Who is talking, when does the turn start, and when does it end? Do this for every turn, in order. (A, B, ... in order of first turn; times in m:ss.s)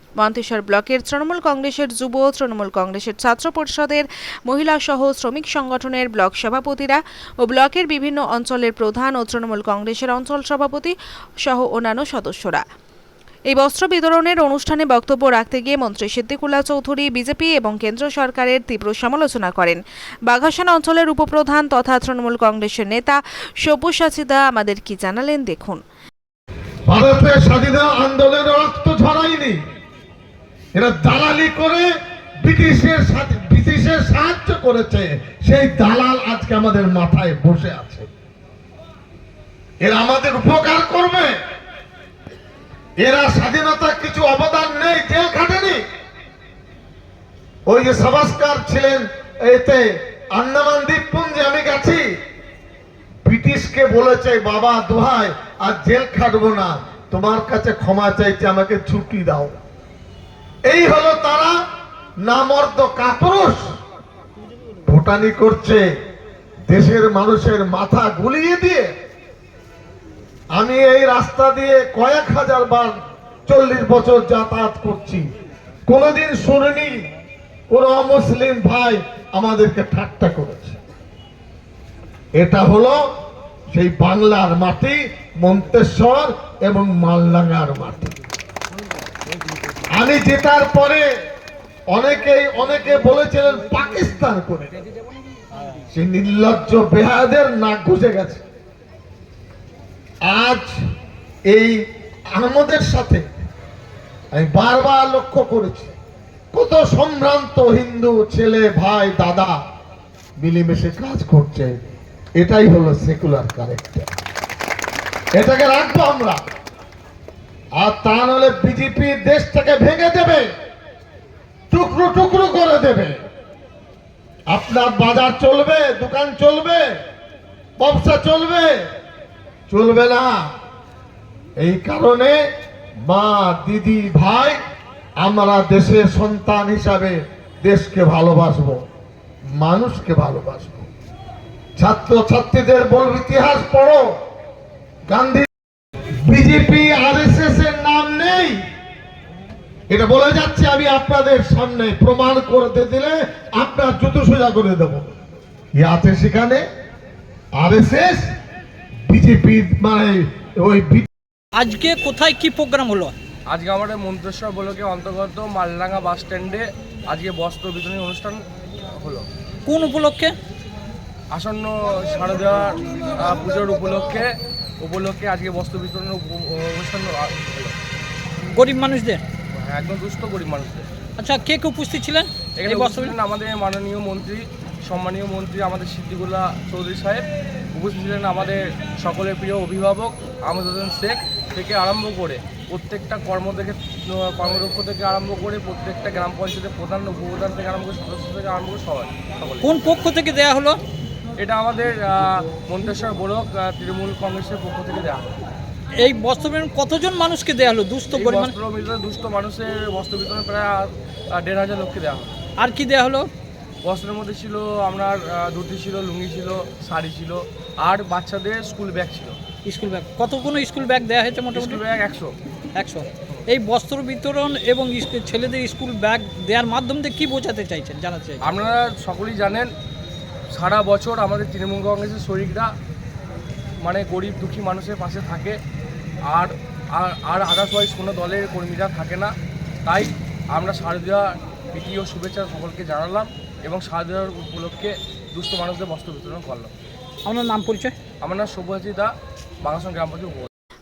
0:00.2-0:12.6 A
0:13.5-0:25.8 A
0:26.9-0:29.6 B
0:30.7-0:31.9 B
0:32.4-0:38.1 B
0:39.8-0:41.4 B
0:43.0-0:45.8 B
0:47.7-0:52.0 B
0:53.2-0:59.6 B
1:00.6-1:01.6 B
1:02.2-1:03.7 B
1:04.8-1:05.8 B
1:06.7-1:08.9 B
1:10.5-1:15.3 B
1:15.9-1:17.1 B
1:17.7-1:20.8 B
1:22.3-1:23.0 B
1:23.7-1:28.1 B
1:29.9-1:31.1 B
1:31.9-1:34.8 B
1:35.9-1:38.4 B
1:40.2-1:40.8 B
1:41.5-1:41.8 B
1:42.3-1:43.2 B
1:44.3-1:45.9 B
1:46.5-1:49.6 B
1:50.4-1:51.8 B
1:52.4-1:54.1 B
1:55.3-1:56.4 B
1:57.8-2:00.4 B
2:01.7-2:03.2 B
2:04.5-2:06.8 B
2:07.8-2:08.7 B
2:09.7-2:10.4 B
2:11.6-2:12.4 B
2:13.0-2:14.6 B
2:15.2-2:18.8 B
2:19.6-2:20.9 B
2:21.8-2:24.0 B
2:25.1-2:25.5 B
2:26.2-2:28.6 B
2:29.9-2:35.1 B
2:35.8-2:36.6 B
2:37.6-2:38.3 B
2:39.1-2:41.1 B
2:41.5-2:43.1 C
2:43.5-2:49.2 D
2:49.6-2:50.3 C
2:51.3-2:54.3 D
2:54.8-2:57.7 D
2:58.5-2:59.2 C
2:59.5-3:00.8 D
3:01.2-3:03.2 C
3:02.6-3:19.7 D
3:19.6-3:20.8 C
3:21.4-3:25.4 D
3:26.0-3:28.5 C
3:28.1-3:32.4 D
3:32.6-3:33.3 C
3:33.8-3:39.4 D
3:39.6-3:41.8 C
3:41.5-3:42.3 D
3:42.7-3:48.4 C
3:48.4-3:49.7 D
3:50.5-3:52.7 D
3:53.8-3:55.6 D
3:56.3-3:59.3 D
3:59.8-4:06.7 D
4:07.2-4:07.9 C
4:08.2-4:09.1 D
4:09.6-4:10.5 D